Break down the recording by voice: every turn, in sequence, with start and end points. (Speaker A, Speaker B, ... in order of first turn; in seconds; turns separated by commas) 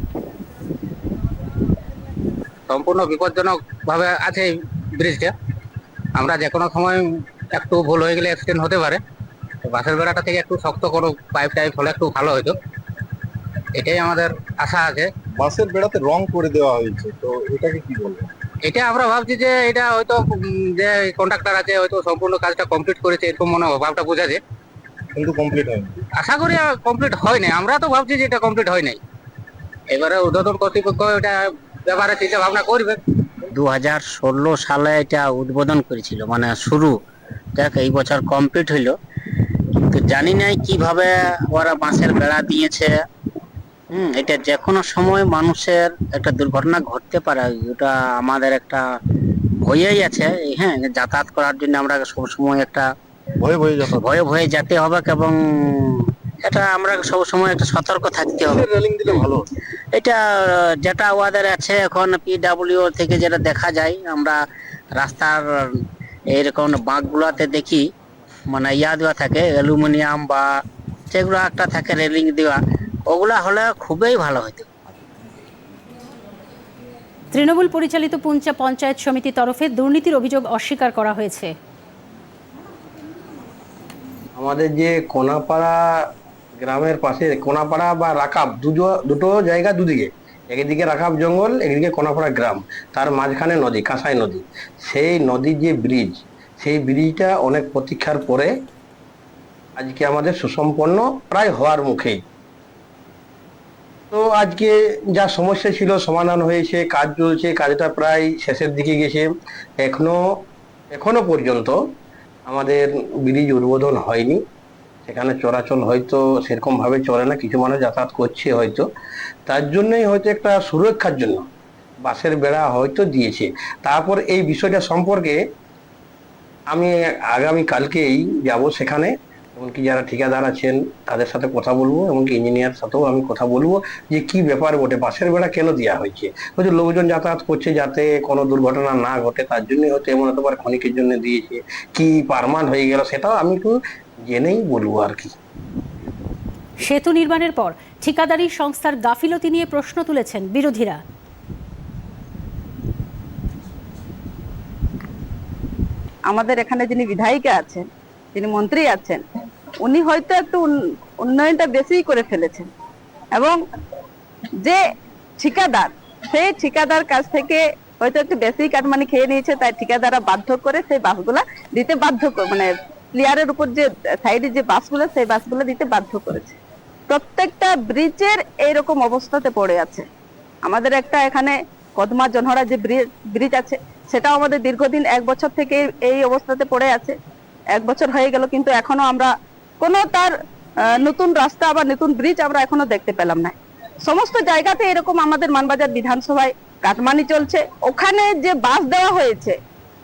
Speaker A: 2.7-5.3, Speaker A: 6.2-9.0, Speaker A: 9.6-12.6, Speaker A: 13.7-15.1, Speaker B: 15.3-18.3, Speaker A: 18.6-24.4, Speaker B: 25.1-26.0, Speaker A: 26.2-29.0, Speaker A: 29.9-33.0, Speaker C: 33.5-36.9, Speaker C: 37.5-38.9, Speaker C: 39.9-42.9, Speaker C: 43.9-48.8, Speaker C: 49.6-52.9, Speaker B: 53.4-54.2, Speaker C: 53.9-59.3, Speaker B: 58.5-59.4, Speaker C: 59.9-64.4, Speaker C: 65.0-65.4, Speaker C: 66.3-67.8, Speaker C: 68.5-70.5, Speaker C: 71.1-72.6, Speaker C: 73.1-74.7, Speaker D: 77.3-81.5, Speaker E: 84.4-86.0, Speaker E: 86.6-98.5, Speaker E: 99.8-102.2, Speaker E: 104.1-109.3, Speaker E: 109.8-110.3, Speaker E: 110.9-111.8, Speaker E: 112.5-114.4, Speaker E: 115.0-118.8, Speaker E: 119.5-121.4, Speaker E: 122.0-125.4, Speaker E: 126.7-145.3, Speaker D: 146.8-151.0, Speaker F: 156.3-159.2, Speaker F: 159.8-160.7, Speaker F: 161.2-162.7, Speaker F: 163.3-163.6, Speaker F: 165.4-176.6, Speaker F: 177.1-180.1, Speaker F: 180.6-187.1, Speaker F: 187.7-190.3, Speaker F: 190.9-199.6